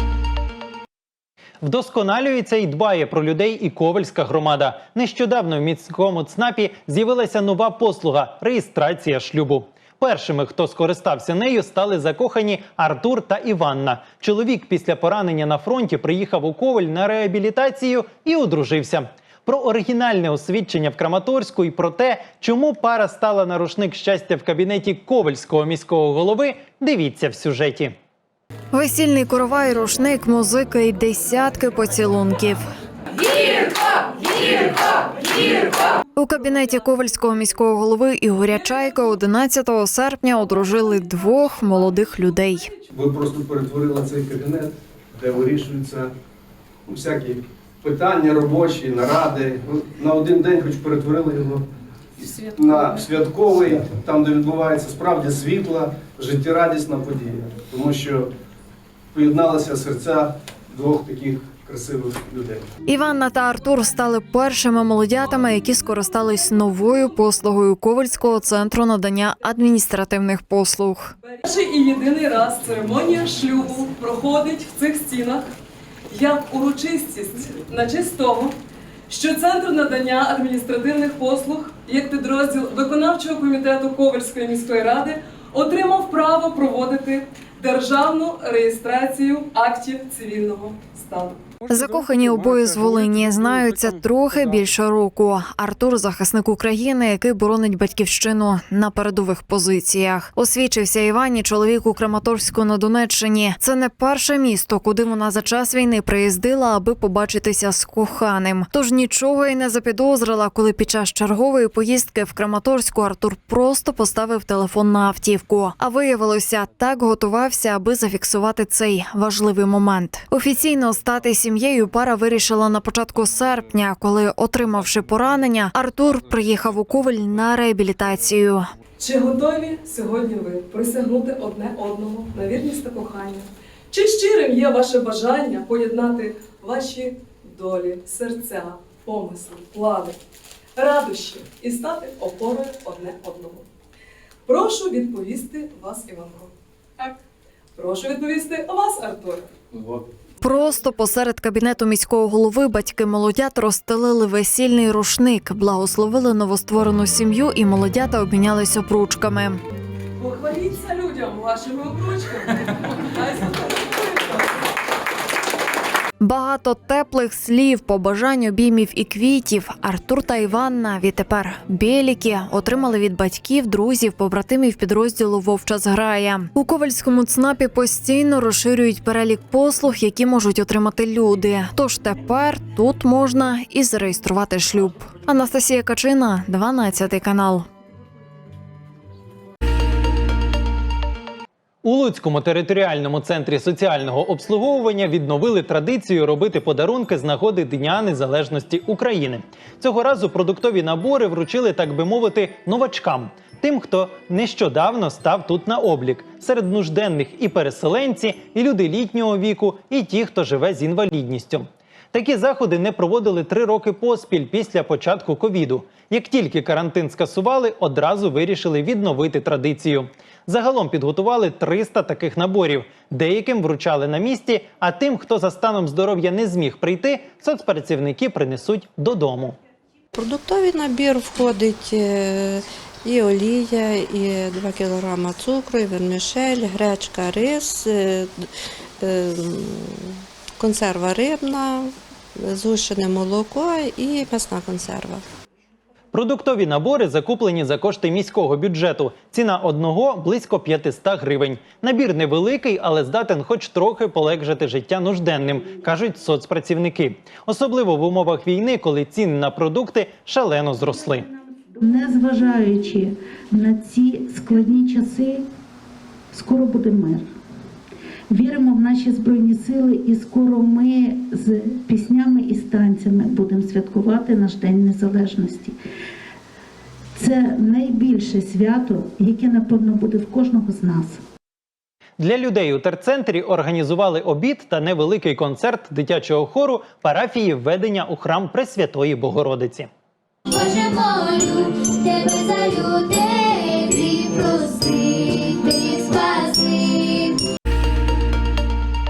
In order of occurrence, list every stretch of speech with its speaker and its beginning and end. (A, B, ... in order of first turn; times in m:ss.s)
0:01.6-0:28.0 A
0:28.7-0:32.7 B
0:36.2-0:42.7 B
0:42.9-0:46.1 C
0:46.9-0:51.6 C
0:52.2-0:58.3 C
0:59.1-1:02.7 C
1:02.9-1:11.1 B
1:11.4-1:15.5 D
1:16.1-1:18.6 D
1:19.1-1:31.4 D
1:31.7-1:32.2 C
1:31.7-2:08.7 B
2:09.0-2:20.2 D
2:20.8-2:23.7 D
2:24.5-2:27.2 D
2:27.8-2:29.5 D
2:29.7-2:30.0 C
2:30.4-2:39.6 B
2:40.2-2:44.6 D
2:46.2-3:07.7 B
3:11.8-3:49.6 A
3:50.1-4:05.2 E
4:06.1-4:21.3 A
4:21.8-4:25.5 F
4:26.3-4:27.3 F
4:28.3-4:35.8 F
4:37.2-4:41.2 F
4:42.2-4:49.9 A
4:50.5-4:57.4 G